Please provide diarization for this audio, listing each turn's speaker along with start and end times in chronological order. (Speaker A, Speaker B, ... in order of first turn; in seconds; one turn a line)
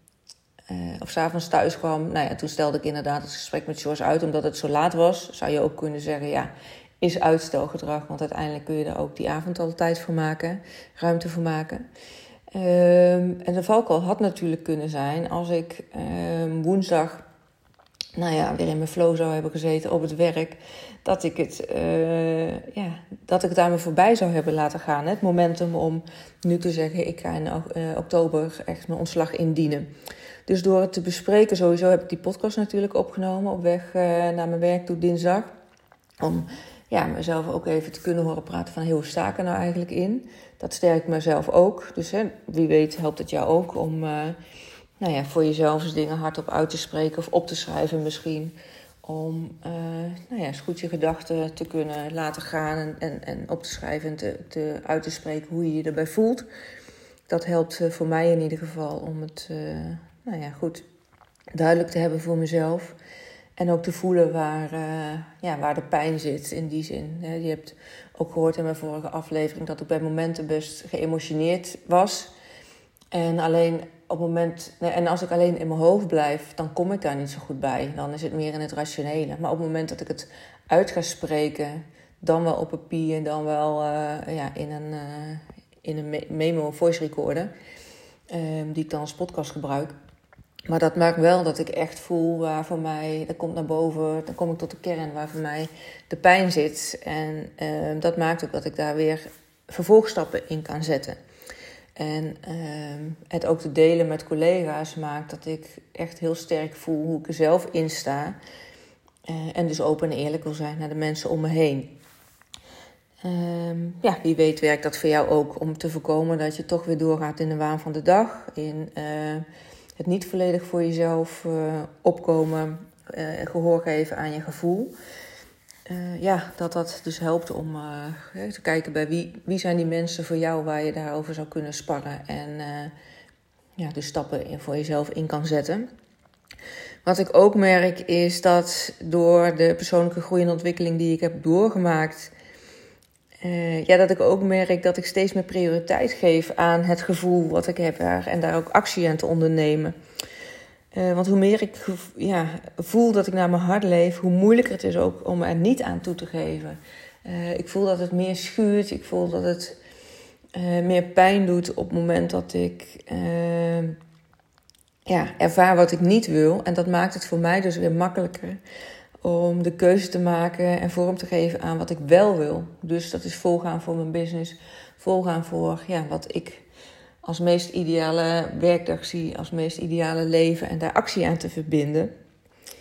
Speaker A: 0.7-11.8
Speaker A: 12.5-17.2
Speaker A: 18.1-29.9
Speaker A: 30.4-35.5
Speaker A: 36.2-44.4
Speaker A: 45.0-56.5
Speaker A: 57.3-60.8
Speaker A: 61.5-63.0
Speaker A: 63.6-72.3
Speaker A: 73.1-87.5
Speaker A: 88.3-89.9
Speaker A: 90.7-101.2
Speaker A: 102.0-108.3
Speaker A: 109.3-111.9
Speaker A: 113.2-119.4
Speaker A: 120.0-124.9
Speaker A: 125.8-132.9
Speaker A: 133.8-135.9
Speaker A: 137.0-142.3
Speaker A: 143.4-149.9
Speaker A: 150.9-159.8
Speaker A: 160.5-164.0
Speaker A: 165.1-168.6
Speaker A: 169.2-176.6
Speaker A: 177.2-182.1